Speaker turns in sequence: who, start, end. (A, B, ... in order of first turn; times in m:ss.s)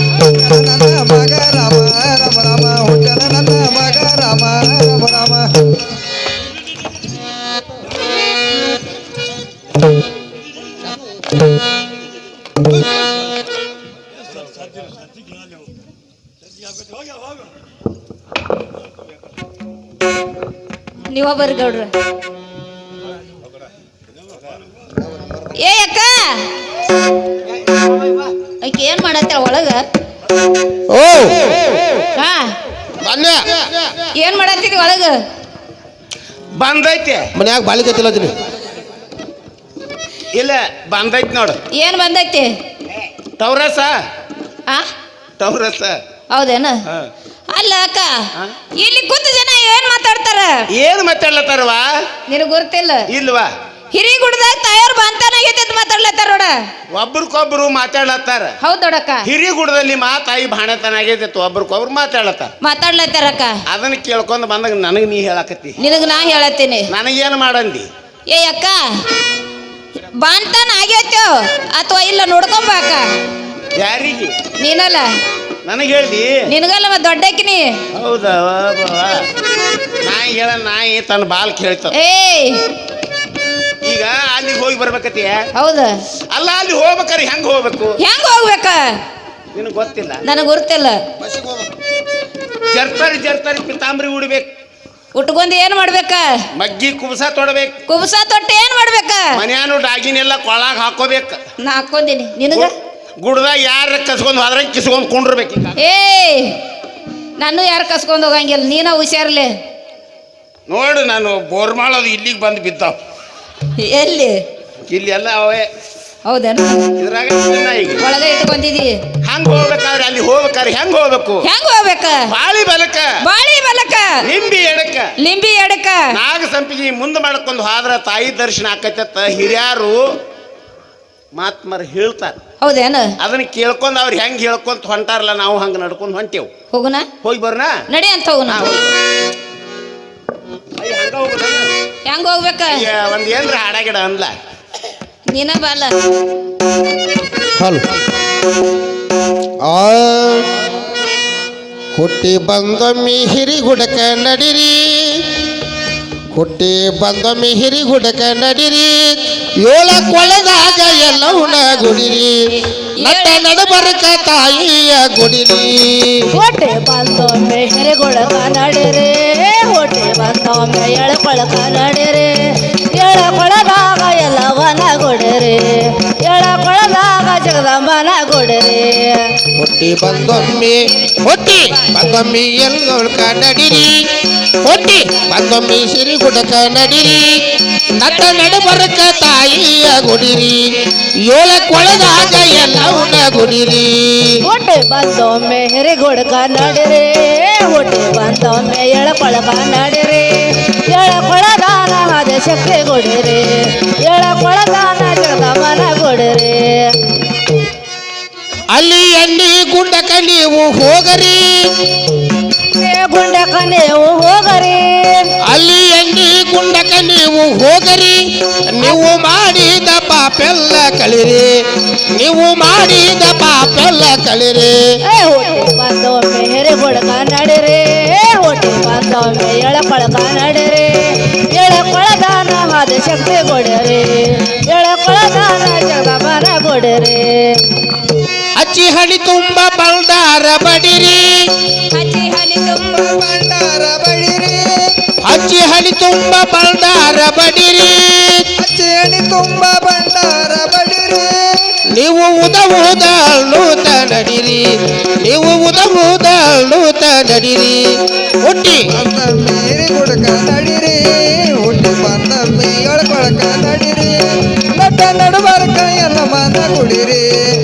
0:00.2-0:05.5 A
0:21.1-0:21.9 B
0:25.6-0:26.4 B
0:28.6-0:29.8 B
0:30.9-0:31.8 C
0:32.2-0:32.5 B
0:33.0-0:33.4 C
0:34.2-0:35.2 B
0:36.6-0:37.3 D
0:37.4-0:38.3 C
0:40.3-0:41.6 D
0:41.7-0:42.5 B
0:43.4-0:44.0 D
0:45.4-0:46.0 D
0:46.3-0:46.8 B
0:47.5-0:50.6 B
0:50.7-0:51.9 D
0:52.3-0:53.1 B
0:53.1-0:53.5 D
0:53.9-0:56.6 B
0:56.9-0:58.5 D
0:58.6-0:59.2 B
0:59.2-1:02.5 D
1:02.6-1:03.6 B
1:03.6-1:05.8 D
1:05.8-1:06.9 B
1:06.9-1:07.9 D
1:08.3-1:09.0 B
1:10.2-1:13.0 B
1:13.8-1:14.3 D
1:14.6-1:15.1 B
1:15.6-1:16.5 D
1:16.5-1:17.8 B
1:18.0-1:19.2 D
1:20.0-1:21.9 D
1:21.9-1:22.6 B
1:23.8-1:25.4 D
1:25.6-1:25.9 B
1:26.3-1:28.0 D
1:28.0-1:29.0 B
1:29.5-1:30.2 D
1:30.2-1:31.0 B
1:31.2-1:31.7 C
1:32.7-1:34.5 D
1:35.1-1:36.4 B
1:36.5-1:37.8 D
1:37.9-1:39.4 B
1:39.3-1:41.4 D
1:41.6-1:42.7 B
1:42.5-1:45.8 D
1:45.8-1:46.6 B
1:47.4-1:49.5 B
1:50.7-1:52.9 D
1:53.8-1:54.4 B
1:54.9-1:55.7 D
1:56.3-1:56.9 B
1:57.0-1:58.0 D
1:58.0-1:59.0 B
1:59.2-2:01.5 D
2:01.4-2:02.3 B
2:02.3-2:03.2 D
2:03.2-2:04.2 B
2:04.2-2:05.1 D
2:05.2-2:06.1 B
2:06.1-2:10.1 D
2:11.3-2:12.4 D
2:12.6-2:13.1 B
2:13.2-2:16.5 D
2:16.7-2:17.1 B
2:17.2-2:17.8 D
2:17.9-2:18.6 B
2:18.5-2:19.0 D
2:20.8-2:21.7 D
2:22.0-2:22.8 B
2:22.7-2:24.3 D
2:25.3-2:25.9 B
2:27.6-2:27.8 C
2:29.6-2:30.5 C
2:31.9-2:35.3 C
2:36.3-2:42.4 C
2:43.0-2:46.3 C
2:43.0-2:43.4 B
2:46.3-2:52.3 E
2:52.9-2:59.3 E
2:59.6-3:03.9 C
3:04.6-3:07.4 C
3:07.9-3:14.4 C
3:08.1-3:08.4 B
3:14.4-3:26.9 E
3:28.7-3:31.9 C
3:32.6-3:35.3 E
3:35.4-3:41.6 C
3:42.1-3:44.8 C
3:45.0-3:57.6 E
3:58.6-4:01.7 C
4:01.9-4:03.0 B
4:02.8-4:04.9 A
4:05.2-4:08.5 C
4:08.6-4:11.7 A
4:11.9-4:14.6 C
4:15.2-4:17.8 C
4:18.4-4:18.8 C
4:18.9-4:24.2 A
4:24.7-4:27.3 A